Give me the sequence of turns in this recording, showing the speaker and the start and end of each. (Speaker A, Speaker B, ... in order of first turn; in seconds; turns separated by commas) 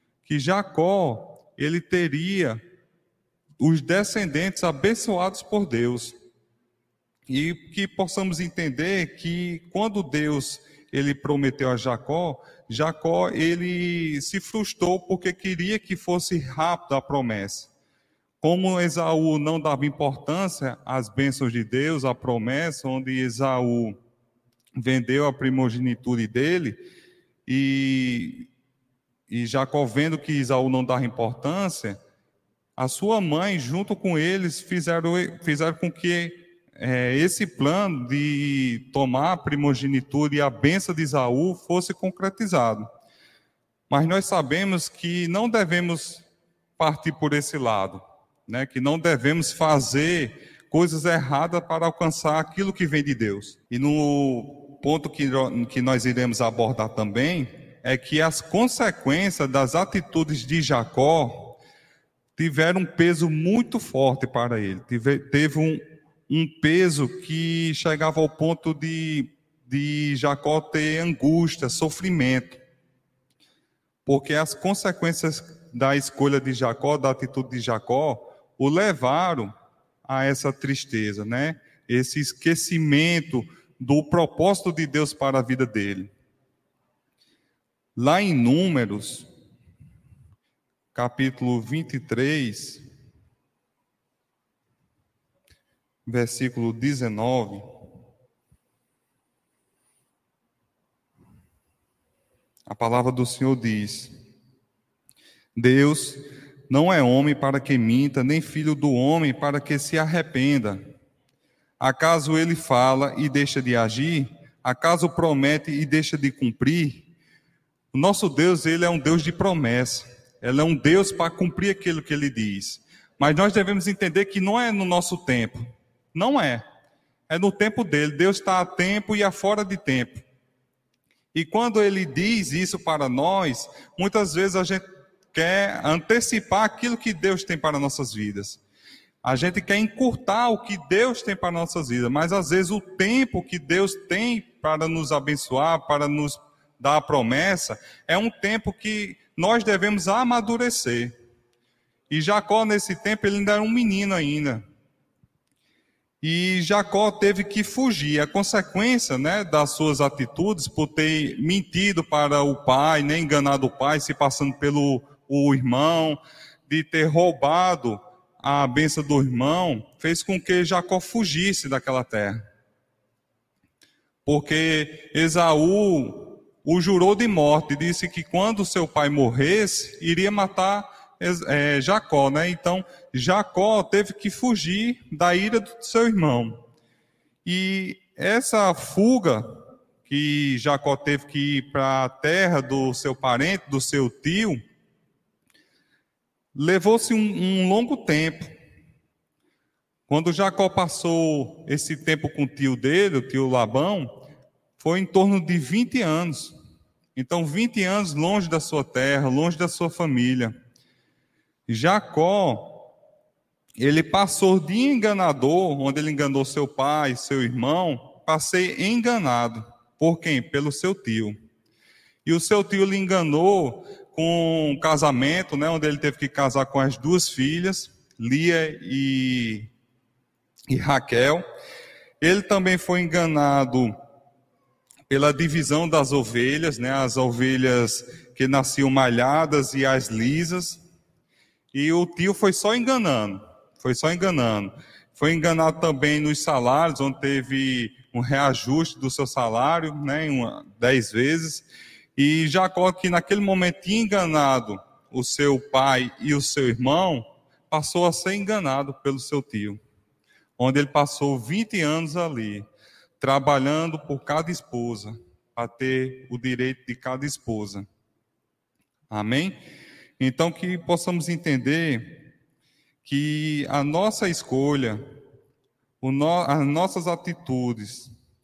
Speaker A: 0.2-2.6, Speaker A: 3.6-6.2, Speaker A: 7.3-17.7, Speaker A: 18.4-24.0, Speaker A: 24.8-26.8, Speaker A: 27.5-28.5, Speaker A: 29.3-32.0, Speaker A: 32.8-42.9, Speaker A: 43.9-46.2, Speaker A: 46.8-61.6, Speaker A: 62.4-72.6, Speaker A: 74.1-79.5, Speaker A: 80.0-86.1, Speaker A: 88.0-89.3, Speaker A: 91.0-92.8, Speaker A: 96.1-97.6, Speaker A: 102.7-104.1, Speaker A: 105.6-110.8, Speaker A: 111.8-117.1, Speaker A: 117.9-125.6, Speaker A: 126.1-126.6, Speaker A: 127.3-130.2, Speaker A: 131.3-138.6, Speaker A: 139.2-151.1, Speaker A: 152.1-154.6, Speaker A: 156.2-172.4, Speaker A: 174.3-186.6, Speaker A: 187.4-189.6, Speaker A: 190.1-194.6, Speaker A: 196.6-198.5, Speaker A: 200.1-204.1, Speaker A: 204.8-206.5, Speaker A: 207.2-210.5, Speaker A: 211.7-212.9, Speaker A: 213.8-221.4, Speaker A: 222.2-229.7, Speaker A: 230.7-231.4, Speaker A: 232.2-233.9, Speaker A: 235.1-240.8, Speaker A: 241.7-251.7, Speaker A: 252.2-259.8, Speaker A: 260.6-262.6, Speaker A: 263.2-267.9, Speaker A: 269.1-269.6, Speaker A: 270.2-272.2, Speaker A: 273.0-275.0, Speaker A: 276.0-278.1